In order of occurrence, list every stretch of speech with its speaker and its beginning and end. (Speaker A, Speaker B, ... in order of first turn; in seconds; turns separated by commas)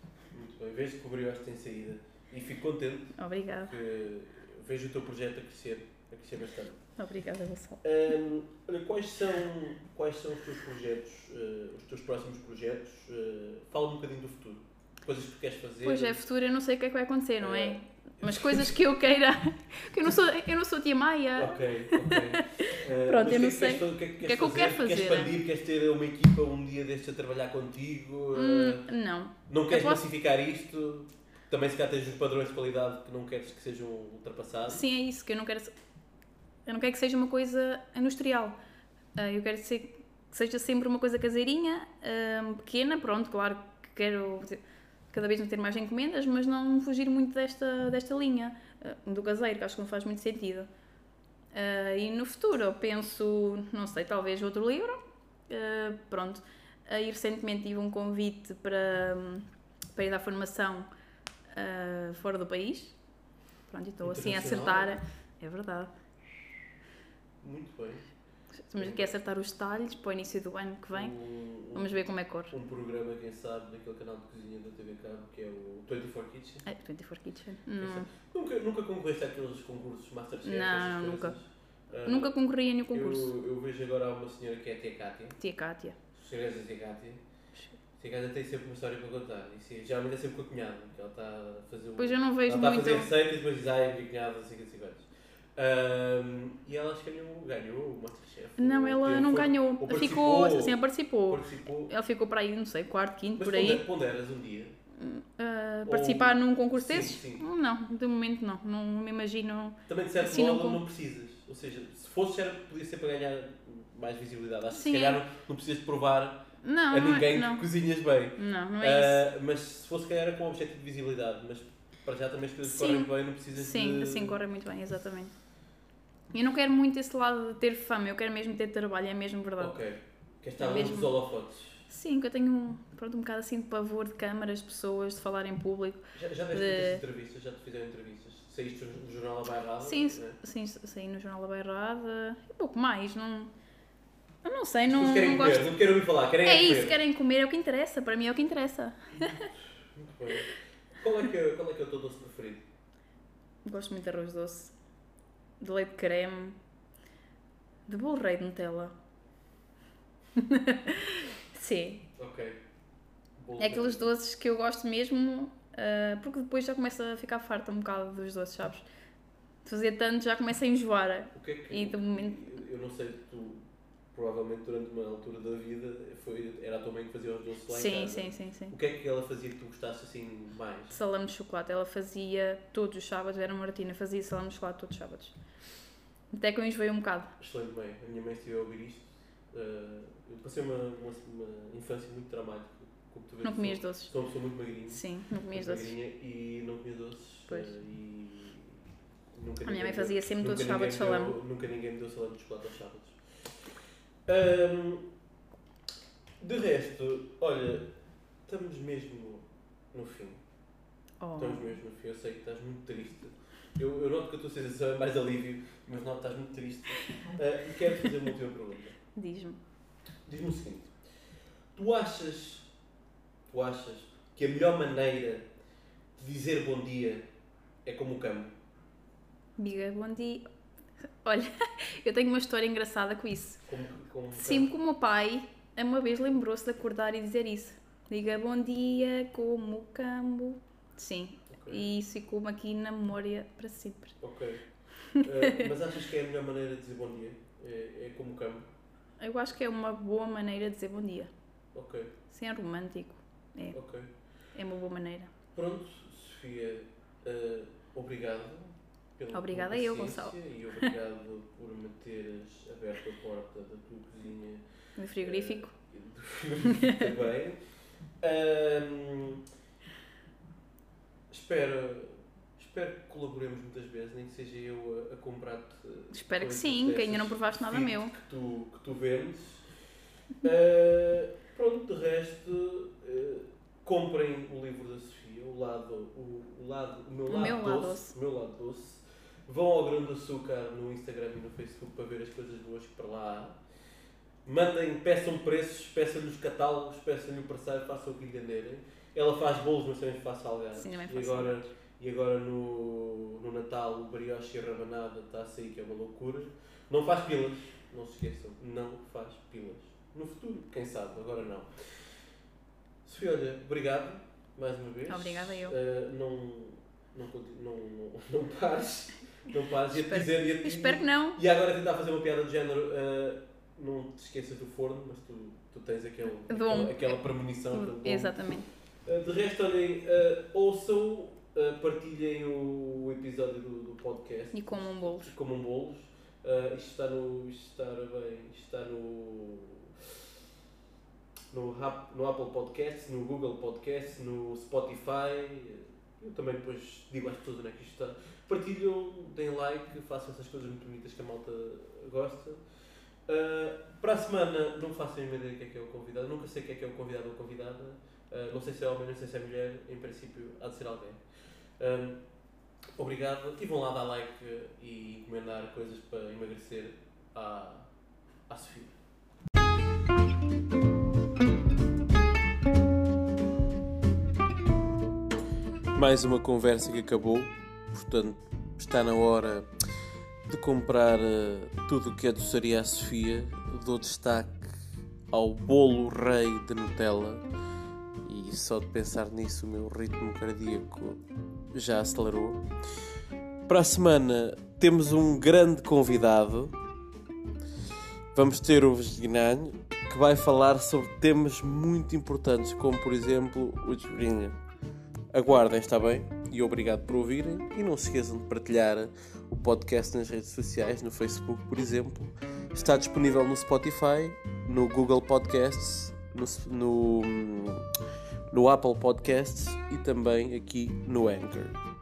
Speaker A: 0.3-6.8, Speaker B: 3.2-3.8, Speaker B: 7.0-7.8, Speaker A: 7.8-16.2, Speaker B: 15.8-25.3, Speaker A: 17.4-18.8, Speaker A: 21.3-28.9, Speaker B: 28.3-30.0, Speaker A: 29.5-34.8, Speaker B: 34.7-35.7, Speaker B: 36.6-38.6, Speaker B: 39.1-50.7, Speaker B: 51.5-60.9, Speaker B: 61.5-63.0, Speaker B: 63.7-65.9, Speaker A: 64.0-65.0, Speaker A: 67.4-68.1, Speaker B: 68.7-71.1, Speaker A: 68.8-69.1, Speaker A: 70.9-76.7, Speaker B: 71.7-72.5, Speaker B: 76.7-78.1, Speaker A: 77.8-82.3, Speaker B: 80.4-81.3, Speaker B: 82.0-83.3, Speaker A: 82.9-85.4, Speaker B: 85.4-86.0, Speaker A: 86.1-87.2, Speaker A: 88.0-101.9, Speaker B: 92.0-93.1, Speaker B: 98.6-103.8, Speaker A: 103.4-104.8, Speaker B: 104.9-110.8, Speaker A: 105.8-107.4, Speaker A: 109.9-124.4, Speaker B: 114.7-115.2, Speaker B: 116.6-117.6, Speaker B: 118.4-119.2, Speaker B: 122.6-125.3, Speaker B: 126.3-129.7, Speaker A: 129.6-131.8, Speaker B: 130.6-131.1, Speaker B: 131.9-137.0, Speaker A: 136.1-140.4, Speaker B: 139.8-143.5, Speaker B: 144.4-145.7, Speaker A: 144.9-147.0, Speaker B: 146.4-149.5, Speaker A: 150.0-152.6, Speaker B: 153.6-154.7, Speaker B: 155.6-156.6, Speaker B: 157.9-158.9, Speaker B: 160.3-162.0, Speaker A: 162.2-162.6, Speaker A: 163.4-164.1, Speaker B: 163.6-168.8, Speaker B: 169.6-172.4, Speaker A: 171.3-181.0, Speaker B: 177.7-178.7, Speaker B: 180.9-185.3, Speaker B: 186.3-187.3, Speaker A: 187.4-198.8, Speaker B: 193.4-194.1, Speaker B: 194.9-195.9, Speaker A: 199.3-203.6, Speaker B: 199.6-201.4, Speaker A: 204.3-205.1, Speaker A: 206.4-207.9, Speaker A: 208.5-210.4, Speaker B: 211.2-211.7, Speaker A: 211.3-219.0, Speaker B: 219.1-219.6, Speaker A: 220.3-220.9, Speaker A: 221.7-222.7, Speaker A: 223.5-225.4, Speaker A: 226.2-227.2, Speaker A: 227.8-228.5, Speaker B: 229.6-230.4, Speaker B: 231.2-233.6, Speaker A: 233.7-234.7, Speaker B: 234.3-244.1, Speaker A: 241.5-241.8, Speaker A: 244.2-244.6, Speaker B: 245.1-245.7, Speaker A: 245.2-248.6, Speaker B: 249.2-251.3, Speaker A: 251.7-252.1, Speaker B: 252.3-253.8, Speaker A: 253.7-254.1, Speaker B: 254.5-255.3, Speaker A: 255.6-264.6, Speaker B: 259.3-260.4, Speaker B: 265.0-265.7, Speaker A: 265.1-267.6, Speaker B: 266.7-267.1, Speaker A: 268.2-269.4, Speaker A: 271.3-279.6, Speaker B: 276.1-278.1, Speaker A: 280.4-293.6, Speaker B: 287.3-288.1, Speaker A: 294.4-311.7, Speaker B: 300.7-301.6, Speaker A: 313.0-328.4, Speaker B: 315.1-315.7, Speaker B: 319.9-321.4, Speaker B: 326.5-327.2, Speaker B: 327.7-328.7, Speaker A: 329.0-340.1, Speaker B: 334.5-335.3, Speaker A: 341.5-352.6, Speaker A: 353.3-361.2, Speaker A: 361.8-362.2, Speaker A: 363.0-367.9, Speaker A: 368.5-368.9, Speaker A: 375.9-379.7, Speaker A: 380.5-384.8, Speaker A: 385.3-387.4, Speaker A: 388.2-392.6, Speaker A: 393.7-396.8, Speaker A: 398.3-404.6, Speaker A: 405.3-417.9, Speaker A: 418.5-421.8